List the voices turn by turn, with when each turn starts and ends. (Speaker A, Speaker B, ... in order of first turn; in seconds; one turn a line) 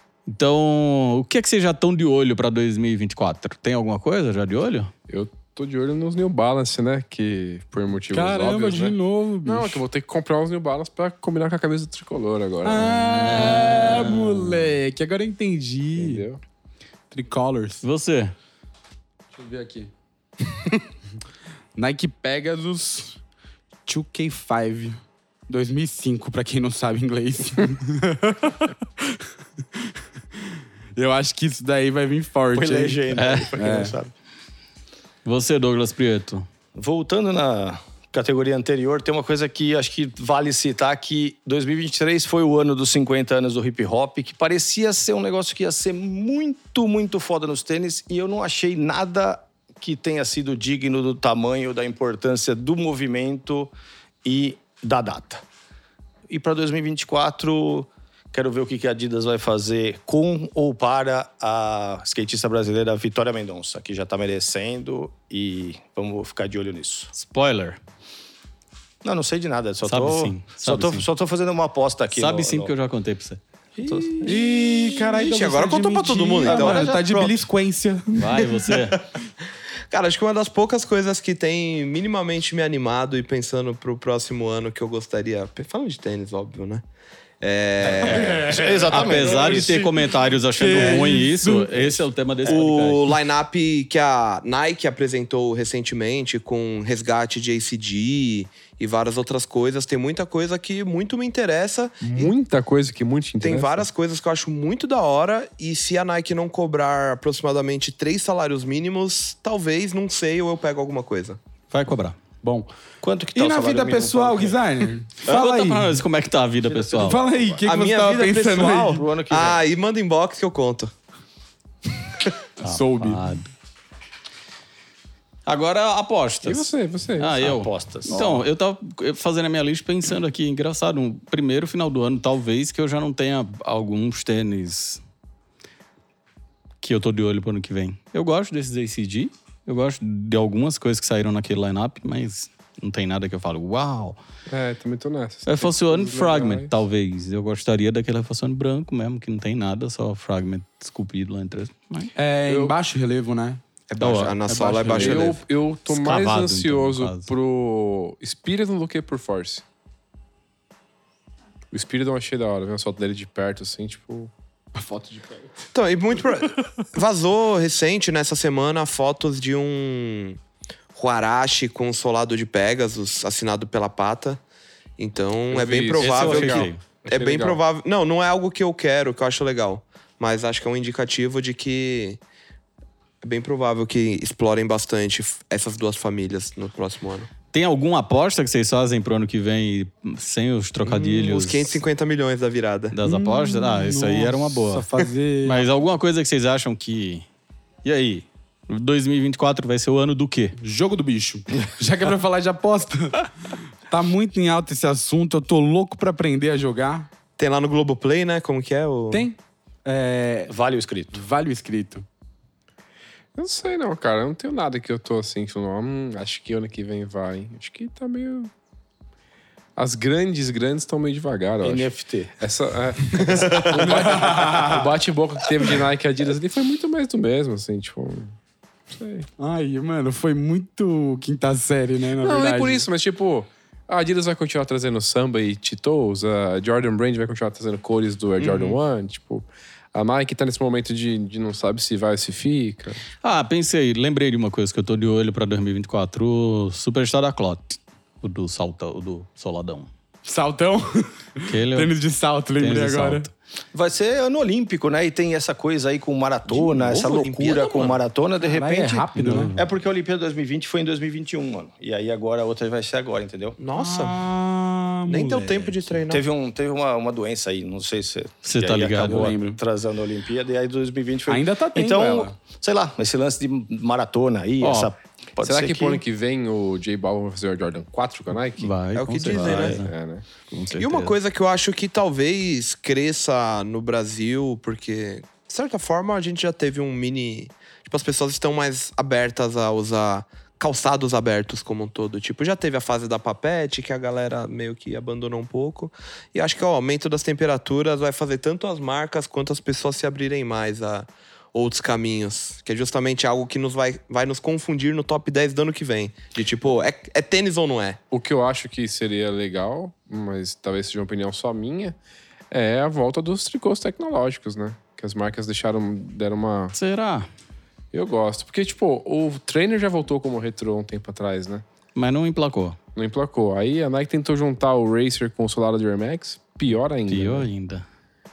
Speaker A: 0.3-4.9
Speaker B: 5.1-13.1
Speaker C: 8.1-9.8
Speaker C: 12.6-16.2
Speaker A: 13.0-14.5
Speaker B: 15.9-16.4
Speaker C: 17.1-17.8
Speaker A: 17.8-18.3
Speaker C: 19.3-19.9
Speaker C: 21.8-23.2
Speaker C: 23.9-29.2
Speaker C: 31.0-33.0
Speaker D: 32.5-34.1
Speaker A: 33.1-33.5
Speaker C: 33.6-34.0
Speaker A: 35.2-36.5
Speaker D: 36.8-53.7
Speaker D: 54.2-55.4
Speaker D: 56.3-67.1
Speaker A: 67.1-67.8
Speaker D: 69.0-72.7
Speaker A: 69.9-71.1
Speaker A: 72.1-73.4
Speaker C: 73.8-78.6
Speaker D: 73.8-74.4
Speaker E: 74.3-77.0
Speaker D: 76.4-77.4
Speaker A: 78.1-79.0
Speaker E: 79.9-86.8
Speaker E: 87.4-88.7
Speaker D: 87.8-89.8
Speaker C: 88.0-91.9
Speaker A: 88.9-93.1
Speaker E: 92.5-102.3
Speaker B: 102.0-103.9
Speaker E: 103.4-111.4
Speaker A: 111.7-112.2
Speaker C: 112.4-112.7
Speaker D: 113.0-114.6
Speaker C: 113.3-116.0
Speaker A: 115.2-117.2
Speaker D: 116.7-117.6
Speaker C: 117.0-119.0
Speaker E: 117.6-120.9
Speaker D: 118.9-119.6
Speaker C: 122.6-123.3
Speaker A: 122.6-123.5
Speaker A: 125.5-135.0
Speaker B: 126.4-127.5
Speaker D: 127.4-128.3
Speaker C: 128.1-128.3
Speaker A: 136.8-144.2
Speaker B: 144.5-146.7
Speaker A: 145.5-152.1
Speaker C: 152.2-153.6
Speaker B: 152.5-152.8
Speaker E: 153.9-155.4
Speaker A: 154.0-154.4
Speaker C: 154.5-155.3
Speaker A: 154.9-155.2
Speaker B: 154.9-159.6
Speaker A: 155.9-157.3
Speaker B: 161.7-164.3
Speaker C: 164.8-165.5
Speaker E: 165.7-170.4
Speaker E: 170.9-174.4
Speaker E: 175.0-182.2
Speaker B: 175.5-177.6
Speaker A: 176.0-176.8
Speaker E: 183.2-187.3
Speaker A: 187.5-191.8
Speaker E: 190.8-192.9
Speaker A: 192.9-194.9
Speaker C: 193.0-195.7
Speaker A: 195.4-197.3
Speaker A: 197.8-200.6
Speaker C: 200.6-207.1
Speaker E: 207.4-209.3
Speaker C: 209.1-210.5
Speaker D: 210.5-211.3
Speaker C: 211.1-212.1
Speaker B: 213.3-218.5
Speaker B: 219.8-228.4
Speaker D: 221.6-222.3
Speaker C: 223.7-224.9
Speaker B: 228.9-229.3
Speaker C: 229.4-232.9
Speaker B: 232.2-243.0
Speaker E: 238.4-238.8
Speaker A: 243.2-249.9
Speaker C: 250.2-253.3
Speaker A: 251.4-251.9
Speaker A: 252.6-253.3
Speaker D: 253.7-263.6
Speaker E: 256.5-258.0
Speaker C: 258.4-259.5
Speaker A: 259.1-259.7
Speaker E: 263.6-264.2
Speaker C: 263.7-265.6
Speaker E: 265.1-266.2
Speaker D: 266.1-276.0
Speaker A: 268.4-269.4
Speaker C: 269.1-269.6
Speaker C: 271.3-272.3
Speaker A: 274.6-274.9
Speaker B: 275.4-278.7
Speaker A: 278.6-279.9
Speaker E: 279.0-279.8
Speaker B: 279.4-280.2
Speaker D: 279.4-279.8
Speaker A: 280.5-281.1
Speaker E: 280.8-308.0
Speaker B: 308.1-312.0
Speaker B: 312.5-316.8
Speaker A: 316.7-317.3
Speaker B: 317.9-321.6
Speaker A: 321.9-322.8
Speaker B: 323.0-327.5
Speaker A: 327.1-327.9